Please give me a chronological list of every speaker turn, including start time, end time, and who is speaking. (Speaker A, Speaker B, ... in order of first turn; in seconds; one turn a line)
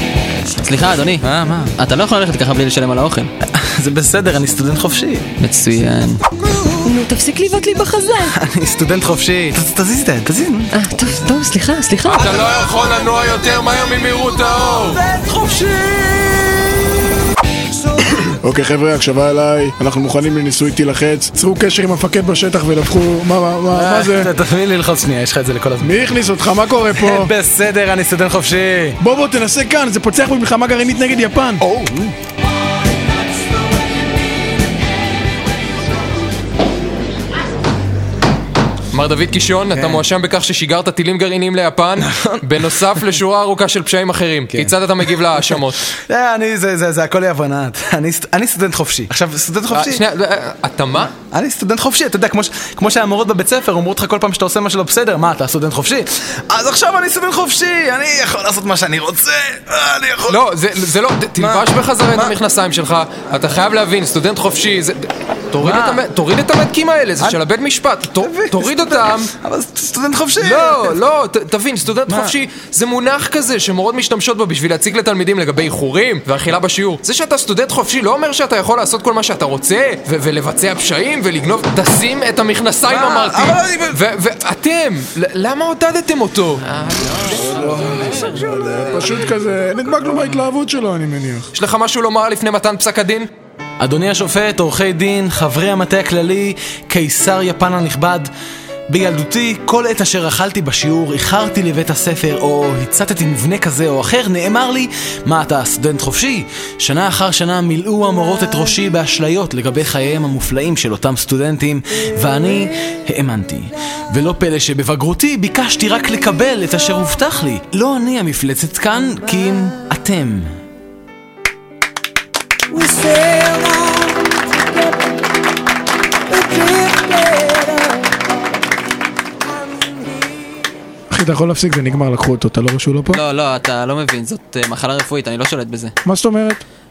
Speaker A: 0.6-1.2
Speaker B: 1.2-1.8
Speaker A: 1.8-3.3
Speaker B: 3.4-5.3
Speaker A: 5.4-6.2
Speaker C: 6.7-8.3
Speaker B: 8.2-10.7
Speaker C: 10.7-12.2
Speaker D: 12.0-15.0
Speaker B: 12.2-17.0
Speaker E: 18.3-24.3
Speaker B: 23.7-26.0
Speaker E: 25.8-27.3
Speaker B: 26.9-29.0
Speaker E: 29.0-31.6
Speaker B: 31.6-32.1
Speaker D: 38.9-45.9
Speaker B: 39.7-40.0
Speaker B: 42.0-43.1
Speaker B: 44.5-50.0
Speaker D: 49.7-51.1
Speaker B: 51.3-60.4
Speaker D: 60.3-69.3
Speaker B: 61.4-62.3
Speaker B: 65.6-66.0
Speaker B: 68.2-71.0
Speaker D: 70.4-87.8
Speaker B: 72.1-72.3
Speaker B: 82.9-84.0
Speaker E: 87.3-91.5
Speaker D: 91.5-93.3
Speaker B: 93.8-98.3
Speaker B: 98.9-120.5
Speaker B: 122.8-123.1
Speaker C: 122.8-125.2
Speaker B: 126.4-126.8
Speaker C: 126.5-128.3
Speaker C: 129.9-130.3
Speaker E: 131.1-133.2
Speaker A: 133.1-135.9
Speaker E: 136.0-136.6